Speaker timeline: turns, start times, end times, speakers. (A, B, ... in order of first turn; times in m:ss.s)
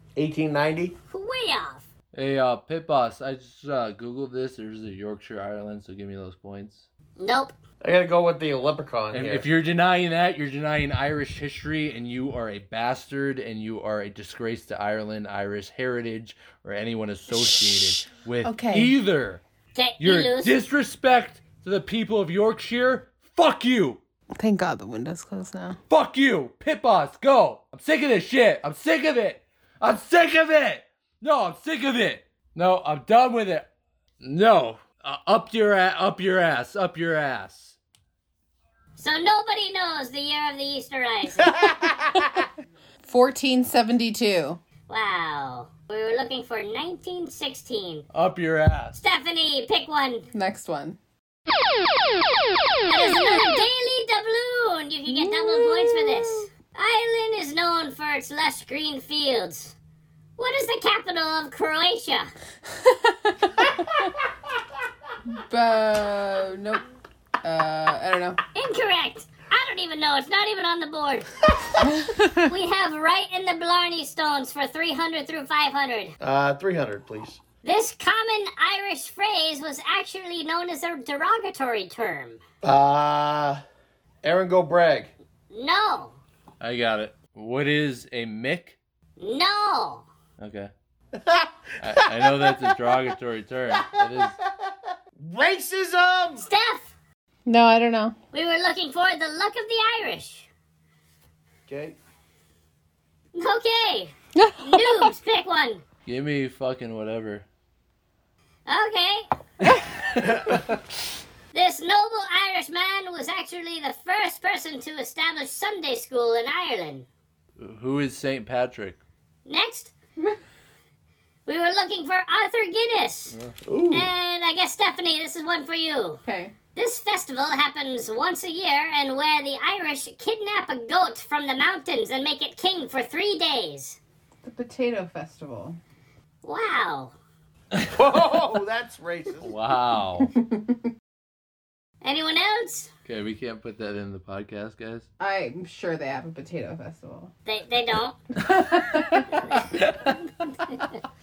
0:00.2-0:01.0 A
0:01.1-0:01.9 B
0:02.1-0:06.8 C
0:07.2-0:07.6 B
0:07.8-0:09.5 A
0:09.1-0:19.4 C
0:18.4-0:19.0 D
0:19.8-0:20.6 B
0:20.0-0:24.0 C
0:24.4-0:25.8 D
0:25.9-0:33.7 C
0:34.2-0:37.8 C
0:39.0-0:41.6 B
0:41.5-0:42.3 A
0:43.0-0:44.6 D
0:44.9-0:48.0 B
0:48.1-0:49.0 C
0:49.0-0:50.3 B
0:50.3-0:51.0 D
0:52.9-0:59.8 B
0:55.1-0:56.2 D
1:00.4-1:02.3 B
1:02.8-1:03.6 D
1:05.4-1:06.8 D
1:07.4-1:08.4 D
1:08.5-1:11.3 B
1:11.8-1:12.3 D
1:12.5-1:16.2 B
1:16.2-1:17.4 A
1:17.6-1:22.4 B
1:22.6-1:23.6 A
1:24.2-1:25.1 A
1:25.5-1:26.2 B
1:26.6-1:28.8 C
1:29.2-1:30.1 B
1:30.4-1:30.7 C
1:31.2-1:31.5 A
1:31.8-1:34.4 C
1:32.1-1:32.9 A
1:33.7-1:34.4 A
1:35.2-1:36.5 A
1:36.4-1:36.9 B
1:37.5-1:38.2 D
1:38.3-1:40.5 B
1:41.7-1:42.0 A
1:43.3-1:45.8 B
1:44.4-1:45.1 D
1:46.0-1:47.5 C
1:48.7-1:49.3 B
1:50.2-1:50.6 A
1:51.5-1:57.1 B
1:57.6-1:59.0 C
1:59.5-1:59.9 B
2:01.5-2:03.3 B
2:03.7-2:04.1 A
2:03.9-2:06.2 B
2:06.2-2:06.6 D
2:06.8-2:14.0 B
2:14.4-2:15.8 D
2:16.4-2:17.2 B
2:17.9-2:19.5 A
2:19.4-2:20.3 C
2:20.4-2:20.8 D
2:22.0-2:22.9 B
2:23.1-2:25.1 C
2:25.2-2:27.3 D
2:27.5-2:28.2 B
2:28.4-2:29.3 D
2:29.8-2:30.1 C